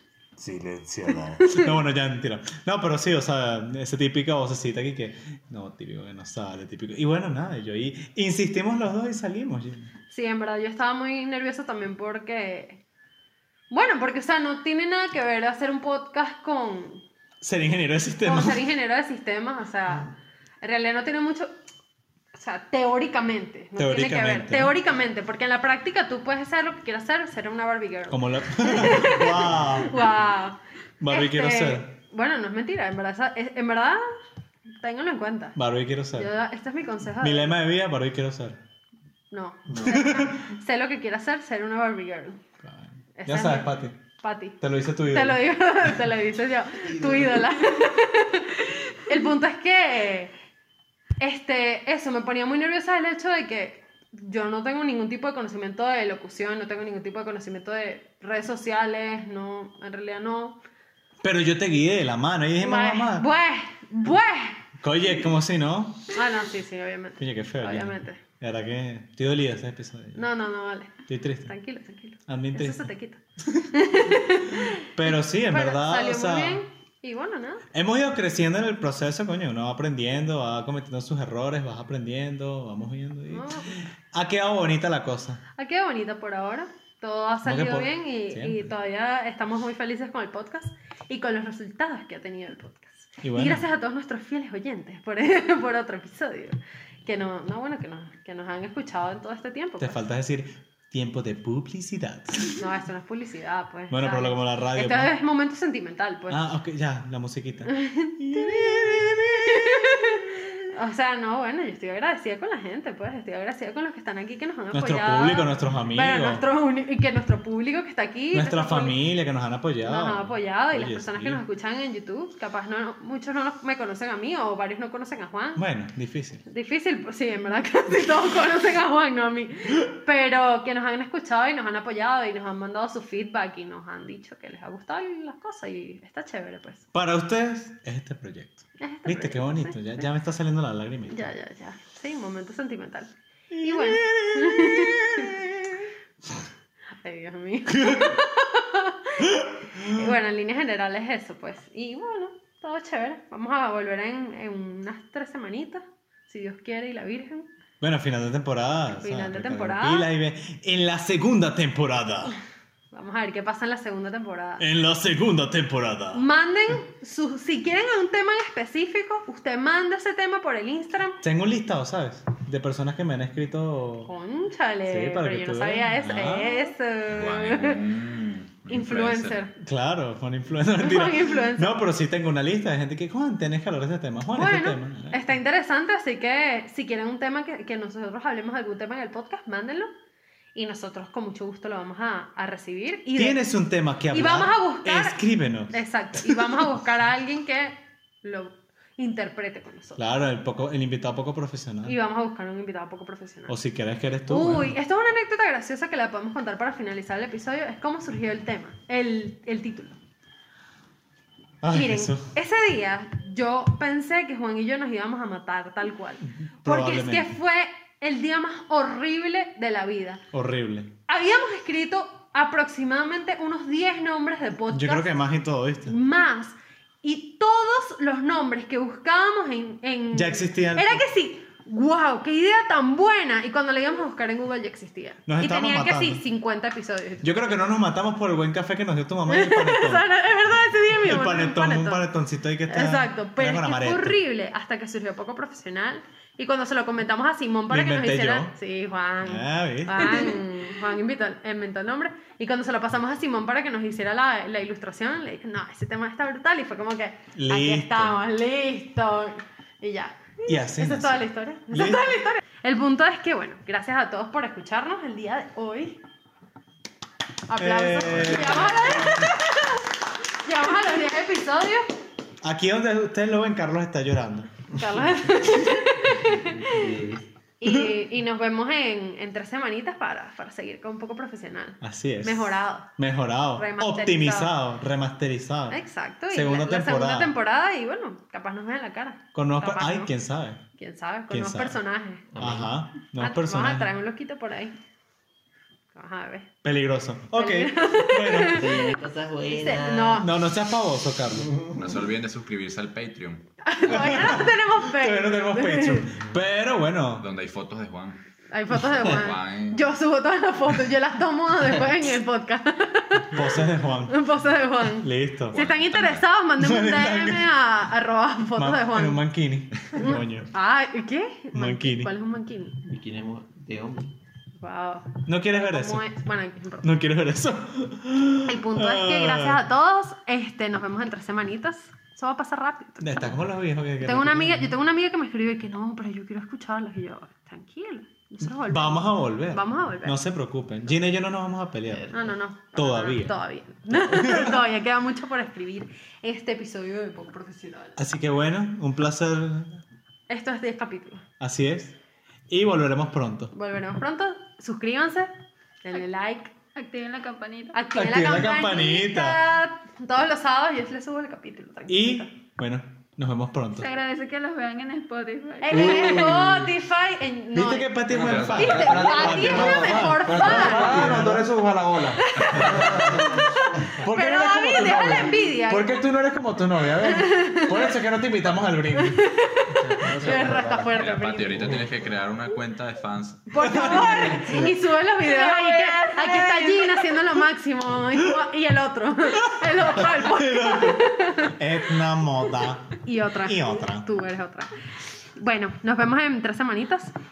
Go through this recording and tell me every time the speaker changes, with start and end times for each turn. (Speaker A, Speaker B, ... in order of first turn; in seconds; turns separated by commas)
Speaker A: 0.4-9.9, Speaker B: 1.4-1.7, Speaker B: 10.1-12.8, Speaker B: 13.7-17.0, Speaker A: 17.4-18.6, Speaker B: 18.2-20.1, Speaker B: 20.6-21.5, Speaker B: 22.3-34.0, Speaker A: 23.8-24.8, Speaker A: 28.1-30.2, Speaker A: 31.0-31.9, Speaker B: 34.8-35.6, Speaker A: 35.6-36.3, Speaker B: 36.1-37.6, Speaker A: 37.2-38.6, Speaker B: 39.3-42.4, Speaker A: 39.7-40.4, Speaker A: 42.6-44.0, Speaker B: 43.2-50.3, Speaker A: 44.6-45.4, Speaker B: 51.2-60.6, Speaker A: 61.2-63.3, Speaker B: 62.6-64.6, Speaker A: 64.8-66.1, Speaker B: 66.1-68.2, Speaker A: 67.2-70.2, Speaker B: 70.2-73.2, Speaker A: 71.1-71.5, Speaker A: 72.3-72.9, Speaker B: 73.7-77.7, Speaker A: 74.6-76.6, Speaker A: 77.7-85.4, Speaker B: 83.3-83.8, Speaker B: 85.6-100.0, Speaker A: 87.4-88.7, Speaker A: 93.2-93.7, Speaker A: 99.8-102.6, Speaker B: 102.6-106.4, Speaker A: 103.9-105.1, Speaker A: 106.3-110.5, Speaker B: 107.7-119.0, Speaker A: 114.7-116.4, Speaker A: 118.3-121.4, Speaker B: 119.8-125.7, Speaker A: 125.6-126.4, Speaker B: 126.5-136.8, Speaker A: 136.9-141.3, Speaker B: 138.8-140.1, Speaker B: 141.1-145.3, Speaker A: 143.5-145.9, Speaker B: 147.0-157.5, Speaker A: 147.7-148.2, Speaker A: 149.2-150.2, Speaker A: 157.8-162.4, Speaker B: 159.0-160.1, Speaker B: 162.9-164.6, Speaker A: 164.6-166.2, Speaker B: 166.1-171.2, Speaker A: 171.2-174.1, Speaker B: 174.1-177.8, Speaker A: 174.9-176.8, Speaker C: 177.1-179.4, Speaker B: 178.7-179.5, Speaker A: 179.6-185.3, Speaker B: 180.8-181.8, Speaker B: 184.3-189.9, Speaker B: 190.6-193.4, Speaker A: 193.2-196.7, Speaker B: 194.1-200.0, Speaker A: 200.0-202.0, Speaker B: 201.8-203.6, Speaker A: 203.5-204.8, Speaker B: 204.3-210.0, Speaker A: 211.6-212.3, Speaker B: 211.7-220.2, Speaker A: 216.2-217.4, Speaker A: 220.3-220.9, Speaker B: 221.1-225.1, Speaker A: 224.7-226.0, Speaker B: 225.9-237.6, Speaker A: 230.1-231.1, Speaker A: 235.3-236.2, Speaker A: 237.2-244.2, Speaker B: 239.3-242.1, Speaker B: 242.7-266.0, Speaker A: 247.7-248.5, Speaker A: 249.2-250.4, Speaker A: 257.4-258.2, Speaker A: 260.5-262.1, Speaker B: 267.5-271.9, Speaker A: 267.6-269.4, Speaker A: 272.4-274.5, Speaker B: 274.7-276.9, Speaker D: 276.2-277.3, Speaker B: 277.6-282.9, Speaker A: 277.6-277.9, Speaker A: 281.8-285.8, Speaker B: 283.6-284.5, Speaker B: 285.7-290.1, Speaker A: 286.3-287.4, Speaker A: 289.3-290.6, Speaker B: 290.8-292.3, Speaker A: 291.3-291.8, Speaker D: 292.3-292.7, Speaker A: 292.4-293.9, Speaker B: 293.2-294.8, Speaker B: 295.9-296.5, Speaker A: 296.6-298.7, Speaker B: 297.4-300.3, Speaker D: 298.5-300.3, Speaker A: 300.2-301.5, Speaker D: 301.4-301.9, Speaker C: 301.8-303.4, Speaker B: 303.6-306.1, Speaker A: 303.9-307.3, Speaker C: 307.2-308.2, Speaker B: 308.5-319.2, Speaker C: 308.9-310.0, Speaker A: 313.3-314.2, Speaker A: 314.9-315.7, Speaker C: 315.6-316.3, Speaker A: 316.6-317.6, Speaker A: 318.6-320.5, Speaker B: 319.9-322.8, Speaker A: 321.5-322.1, Speaker D: 322.9-324.2, Speaker B: 324.6-326.9, Speaker A: 325.3-326.1, Speaker A: 326.8-329.6, Speaker B: 328.5-333.4, Speaker A: 333.0-334.7, Speaker B: 334.0-340.2, Speaker A: 338.4-342.1, Speaker D: 341.9-342.4, Speaker B: 342.1-348.0, Speaker A: 342.7-343.3, Speaker A: 343.9-344.6, Speaker A: 348.0-349.8, Speaker B: 350.3-351.2, Speaker A: 351.4-352.0, Speaker A: 352.5-353.5, Speaker B: 353.5-355.3, Speaker B: 355.8-356.5, Speaker E: 356.8-357.8, Speaker B: 357.7-362.3, Speaker A: 357.9-359.4, Speaker A: 361.9-363.9, Speaker E: 363.7-366.1, Speaker B: 365.6-371.2, Speaker A: 365.7-366.8, Speaker A: 367.5-371.5, Speaker F: 368.1-373.4, Speaker C: 368.1-368.8, Speaker B: 372.2-376.1, Speaker C: 372.4-372.9, Speaker A: 372.6-373.3, Speaker A: 374.0-379.3, Speaker B: 377.0-378.0, Speaker B: 378.9-381.8, Speaker F: 379.8-380.9, Speaker D: 380.3-380.6, Speaker C: 380.9-383.8, Speaker B: 383.5-391.6, Speaker A: 383.6-384.7, Speaker E: 385.2-387.5, Speaker A: 389.4-394.1, Speaker B: 393.0-397.1